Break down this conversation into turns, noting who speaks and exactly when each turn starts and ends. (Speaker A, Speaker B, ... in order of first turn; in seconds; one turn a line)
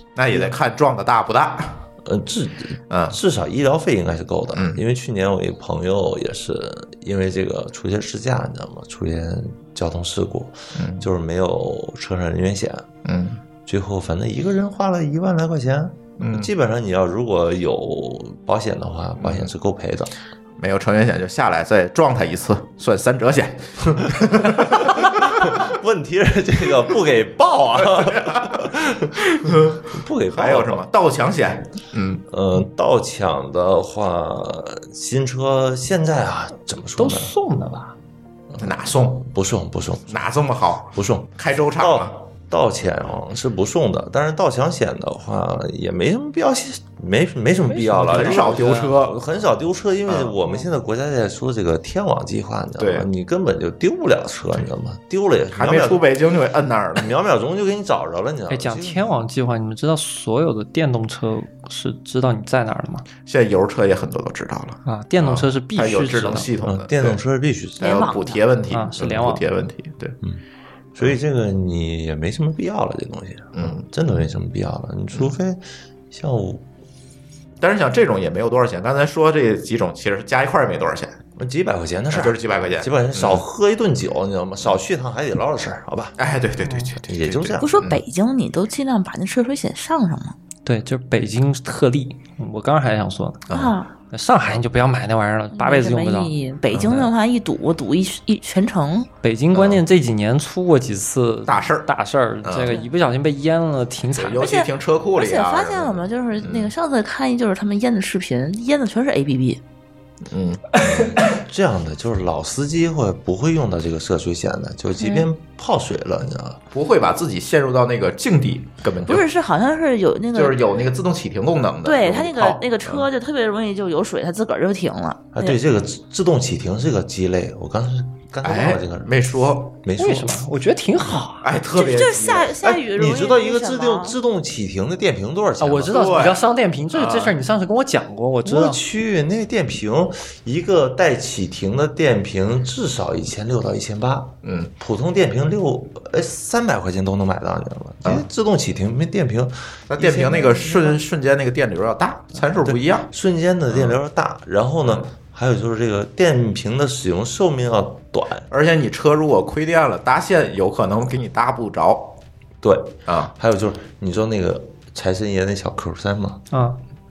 Speaker A: 0.1-1.8
Speaker B: 2.0-12.8
Speaker A: 2.9-3.2
Speaker A: 4.5-4.8
Speaker A: 10.8-11.1
Speaker A: 13.0-13.4
Speaker B: 13.7-20.1
Speaker A: 16.2-16.5
Speaker A: 19.2-19.5
Speaker A: 20.6-25.7
Speaker B: 24.2-29.2
Speaker A: 27.8-28.7
Speaker A: 29.3-32.2
Speaker B: 29.8-30.9
Speaker B: 32.3-37.3
Speaker C: 37.0-37.9
Speaker B: 38.5-40.2
Speaker A: 38.6-39.3
Speaker A: 40.1-42.1
Speaker B: 40.9-56.1
Speaker C: 47.7-49.0
Speaker A: 48.1-49.1
Speaker A: 50.1-50.4
Speaker A: 52.8-53.1
Speaker A: 55.5-57.1
Speaker B: 56.9-59.1
Speaker C: 58.5-63.0
Speaker A: 63.2-67.2
Speaker C: 64.8-66.5
Speaker B: 66.6-68.1
Speaker D: 67.8-68.4
Speaker A: 67.8-70.2
Speaker C: 68.7-69.4
Speaker B: 70.9-76.6
Speaker A: 73.5-73.8
Speaker A: 77.6-81.2
Speaker B: 81.4-86.2
Speaker A: 82.1-83.4
Speaker A: 86.2-88.0
Speaker C: 86.6-86.9
Speaker B: 87.1-87.9
Speaker D: 87.6-90.3
Speaker C: 90.6-93.4
Speaker A: 93.5-93.7
Speaker D: 93.5-93.9
Speaker C: 94.1-96.3
Speaker D: 95.5-99.1
Speaker A: 96.7-97.1
Speaker C: 99.2-104.5
Speaker A: 99.5-99.8
Speaker A: 101.5-101.9
Speaker A: 102.4-102.8
Speaker A: 104.2-106.7
Speaker D: 104.4-109.6
Speaker A: 110.2-110.7
Speaker B: 110.8-116.6
Speaker D: 115.0-115.3
Speaker A: 116.7-119.2
Speaker D: 119.1-120.6
Speaker A: 120.3-123.1
Speaker D: 121.8-125.6
Speaker B: 125.3-129.1
Speaker A: 128.4-129.8
Speaker B: 129.8-130.4
Speaker C: 130.0-131.5
Speaker A: 131.4-132.5
Speaker D: 131.7-134.2
Speaker B: 132.6-136.3
Speaker C: 135.6-138.8
Speaker A: 135.9-137.3
Speaker B: 138.4-150.9
Speaker A: 144.4-144.7
Speaker A: 149.9-153.1
Speaker B: 152.4-158.5
Speaker A: 153.7-154.0
Speaker A: 158.5-162.2
Speaker B: 162.6-166.4
Speaker A: 163.1-163.3
Speaker C: 166.5-166.8